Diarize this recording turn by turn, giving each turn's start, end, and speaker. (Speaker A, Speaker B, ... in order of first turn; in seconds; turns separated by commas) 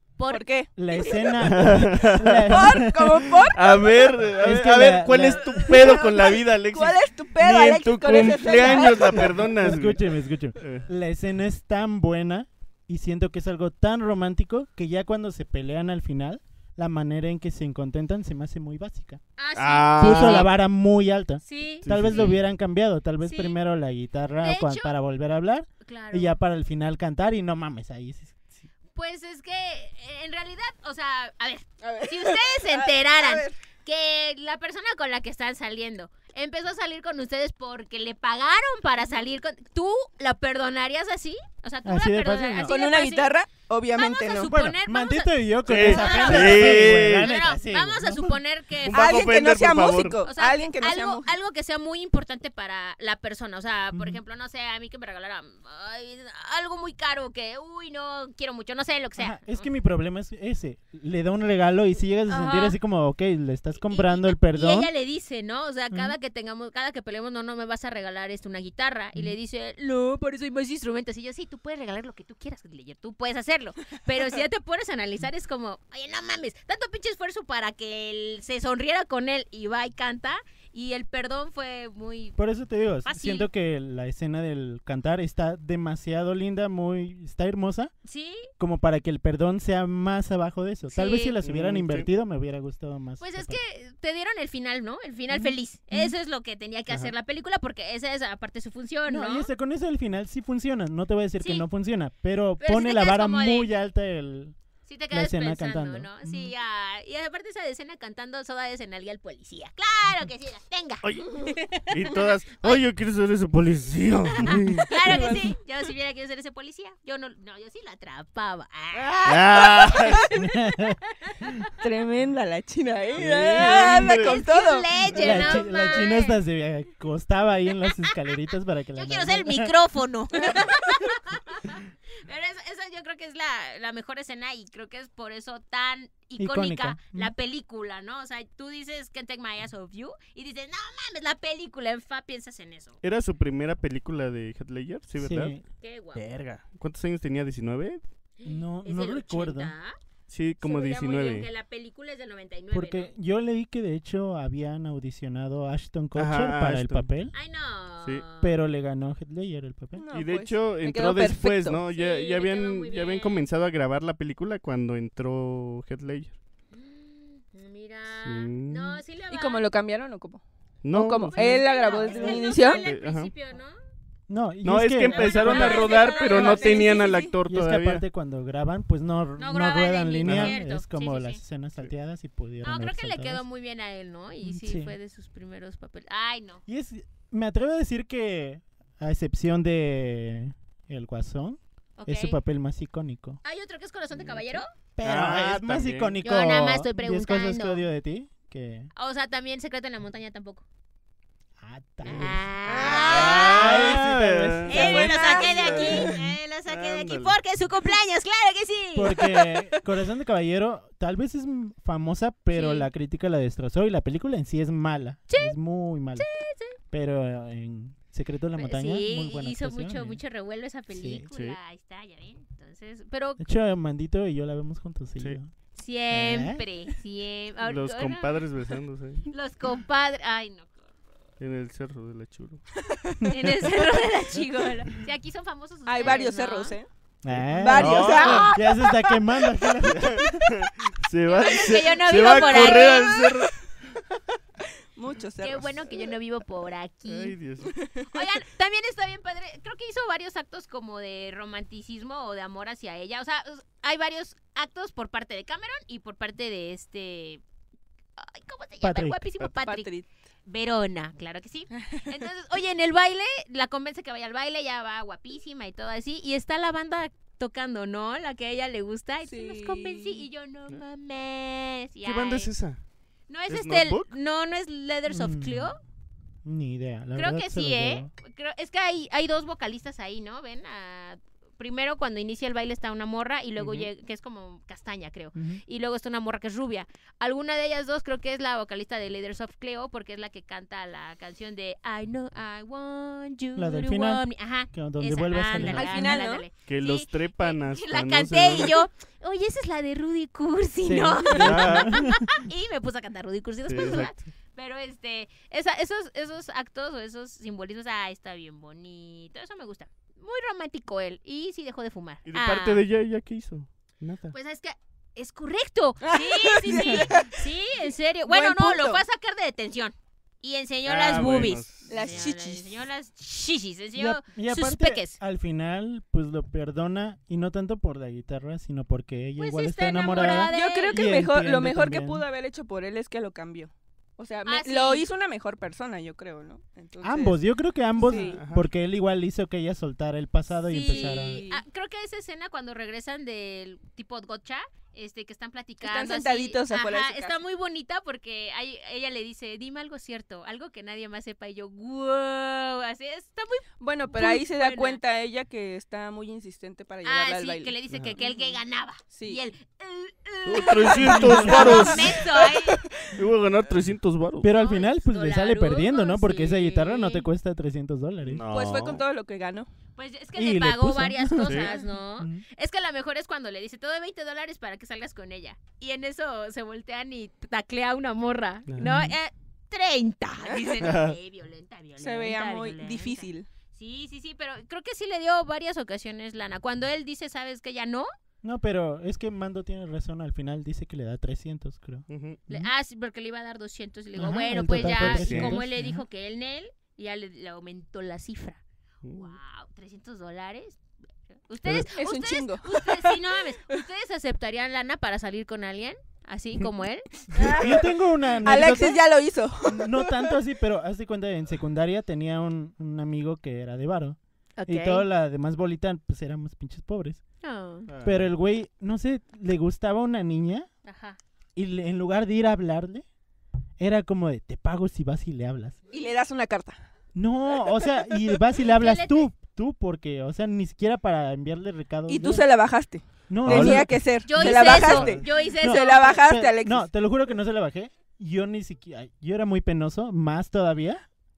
Speaker A: 0.2-1.1, Speaker B: 0.3-1.3, Speaker C: 0.8-3.4, Speaker D: 1.4-2.8, Speaker B: 2.5-4.3, Speaker D: 3.5-10.1, Speaker C: 4.4-5.9, Speaker B: 5.5-9.3, Speaker C: 8.6-19.2, Speaker D: 10.6-10.9, Speaker A: 19.4-20.5, Speaker D: 19.6-20.5, Speaker C: 20.0-28.4, Speaker A: 21.4-22.4, Speaker D: 21.9-22.4, Speaker A: 23.2-23.6, Speaker A: 24.4-24.9, Speaker A: 25.8-26.4, Speaker A: 28.9-43.3, Speaker B: 31.8-33.6, Speaker C: 41.9-42.7, Speaker B: 42.6-44.5, Speaker A: 44.0-49.2, Speaker C: 44.5-48.4, Speaker D: 45.7-47.3, Speaker D: 48.8-50.2, Speaker B: 48.9-51.3, Speaker A: 50.2-59.7, Speaker C: 53.9-54.2, Speaker C: 59.2-64.9, Speaker A: 62.3-62.8, Speaker A: 63.9-82.4, Speaker C: 82.4-87.9, Speaker A: 83.0-83.5, Speaker A: 88.0-88.5, Speaker C: 88.6-93.6, Speaker A: 90.9-91.4, Speaker D: 91.4-92.1, Speaker A: 93.2-99.5, Speaker C: 95.3-96.1, Speaker C: 99.1-104.6, Speaker A: 101.4-101.7, Speaker A: 102.6-103.7, Speaker A: 104.8-112.8, Speaker C: 105.1-106.5, Speaker D: 111.0-114.9, Speaker A: 114.4-120.3, Speaker B: 115.0-115.5, Speaker B: 119.0-120.3, Speaker D: 119.2-120.3, Speaker C: 120.3-121.5, Speaker A: 121.2-121.7, Speaker B: 121.8-125.0, Speaker D: 123.2-124.4, Speaker C: 123.3-123.9, Speaker A: 123.5-126.4, Speaker C: 125.1-129.7, Speaker A: 128.9-143.0, Speaker C: 136.4-137.3, Speaker D: 143.0-145.6, Speaker C: 145.2-145.6, Speaker A: 145.8-146.2, Speaker D: 146.2-148.0, Speaker A: 148.4-150.0, Speaker C: 148.5-149.7, Speaker D: 150.3-151.5, Speaker A: 150.6-153.1, Speaker C: 152.7-157.3, Speaker D: 156.2-157.1, Speaker A: 157.3-158.5, Speaker C: 158.4-160.1, Speaker B: 159.9-161.8, Speaker D: 160.1-166.4, Speaker A: 161.9-163.5, Speaker A: 166.7-169.7, Speaker D: 168.2-169.0, Speaker B: 169.3-172.9, Speaker D: 170.8-171.7, Speaker A: 171.3-173.8, Speaker D: 172.2-173.3, Speaker C: 174.3-175.9, Speaker D: 174.6-178.0, Speaker A: 175.1-177.2, Speaker B: 175.5-177.3, Speaker C: 177.5-183.4, Speaker A: 179.4-181.4, Speaker D: 180.2-180.6, Speaker A: 182.6-186.6, Speaker C: 184.4-184.9, Speaker C: 186.7-193.4, Speaker A: 192.0-192.4, Speaker A: 193.4-194.7, Speaker C: 195.0-198.9, Speaker D: 195.0-196.2, Speaker A: 196.2-197.9, Speaker A: 198.9-200.7, Speaker C: 201.6-206.2, Speaker A: 202.0-203.8, Speaker B: 202.7-203.5, Speaker D: 202.7-206.2, Speaker A: 204.7-209.3, Speaker B: 204.8-206.1, Speaker D: 206.7-207.3, Speaker C: 208.9-216.3, Speaker A: 212.5-212.9, Speaker A: 215.3-215.6, Speaker A: 216.2-216.8, Speaker C: 216.9-220.2, Speaker A: 218.6-223.4, Speaker C: 220.9-221.3, Speaker D: 221.3-221.6, Speaker C: 223.4-225.5, Speaker A: 225.8-228.4, Speaker C: 226.1-226.7, Speaker D: 227.7-229.3, Speaker A: 229.3-230.9, Speaker D: 231.4-232.6, Speaker B: 232.9-233.2, Speaker C: 233.2-233.6, Speaker A: 233.3-236.8, Speaker B: 235.9-236.9, Speaker C: 237.2-240.7, Speaker B: 237.5-238.5, Speaker D: 237.7-238.5, Speaker A: 238.0-239.1, Speaker D: 239.8-243.7, Speaker A: 241.3-243.3, Speaker B: 242.5-243.0, Speaker B: 244.9-246.1, Speaker A: 245.4-247.4, Speaker D: 247.1-247.7, Speaker B: 247.7-248.2, Speaker A: 248.1-257.4, Speaker A: 258.2-259.9, Speaker C: 258.8-259.2, Speaker B: 259.6-260.1, Speaker A: 260.5-272.5, Speaker B: 261.8-262.1, Speaker B: 269.2-270.2, Speaker D: 272.0-272.8, Speaker A: 273.3-275.8, Speaker D: 273.5-274.1, Speaker C: 275.1-275.7, Speaker C: 276.4-278.1, Speaker A: 277.1-312.8, Speaker C: 285.4-285.6, Speaker C: 293.6-296.2, Speaker B: 295.6-296.4, Speaker D: 296.6-298.8, Speaker C: 300.8-302.4, Speaker D: 301.4-301.9, Speaker D: 303.7-304.2, Speaker D: 312.3-314.3, Speaker A: 314.3-325.2, Speaker B: 316.0-317.4, Speaker B: 318.2-319.0, Speaker D: 320.9-322.2, Speaker B: 321.9-322.8, Speaker C: 323.9-332.2, Speaker A: 329.4-331.1, Speaker B: 330.2-337.4, Speaker A: 334.5-335.1, Speaker C: 337.0-341.4, Speaker B: 338.0-338.4, Speaker A: 338.0-338.4, Speaker D: 338.3-338.7, Speaker A: 340.7-355.0, Speaker B: 340.9-341.6, Speaker B: 345.8-347.4, Speaker B: 353.8-358.5, Speaker A: 357.0-362.8, Speaker B: 359.1-359.4, Speaker D: 360.4-362.2, Speaker B: 360.9-363.2, Speaker C: 361.0-362.0, Speaker D: 363.1-364.5, Speaker C: 364.4-368.4, Speaker A: 364.5-367.3, Speaker D: 368.3-369.0, Speaker B: 368.5-369.7, Speaker A: 370.0-388.1, Speaker C: 370.4-372.4, Speaker D: 371.4-371.7, Speaker C: 378.8-379.2, Speaker D: 380.8-381.2, Speaker B: 382.0-383.5, Speaker C: 388.4-392.7, Speaker D: 392.1-392.4, Speaker A: 392.5-398.6, Speaker C: 394.2-396.0, Speaker D: 394.8-395.6, Speaker D: 399.0-399.3, Speaker A: 399.1-400.8, Speaker A: 401.4-407.2, Speaker B: 401.9-403.2, Speaker B: 407.3-410.3, Speaker C: 407.4-409.0, Speaker C: 409.6-417.2, Speaker A: 414.6-415.1, Speaker A: 417.4-417.9, Speaker D: 417.9-418.3, Speaker C: 418.0-420.7, Speaker A: 420.9-421.2, Speaker C: 421.6-423.1, Speaker C: 423.8-425.8, Speaker B: 425.9-426.8, Speaker C: 427.1-432.4, Speaker A: 428.7-429.3, Speaker B: 432.1-436.9, Speaker C: 433.3-441.0, Speaker D: 433.4-433.9, Speaker A: 434.2-436.2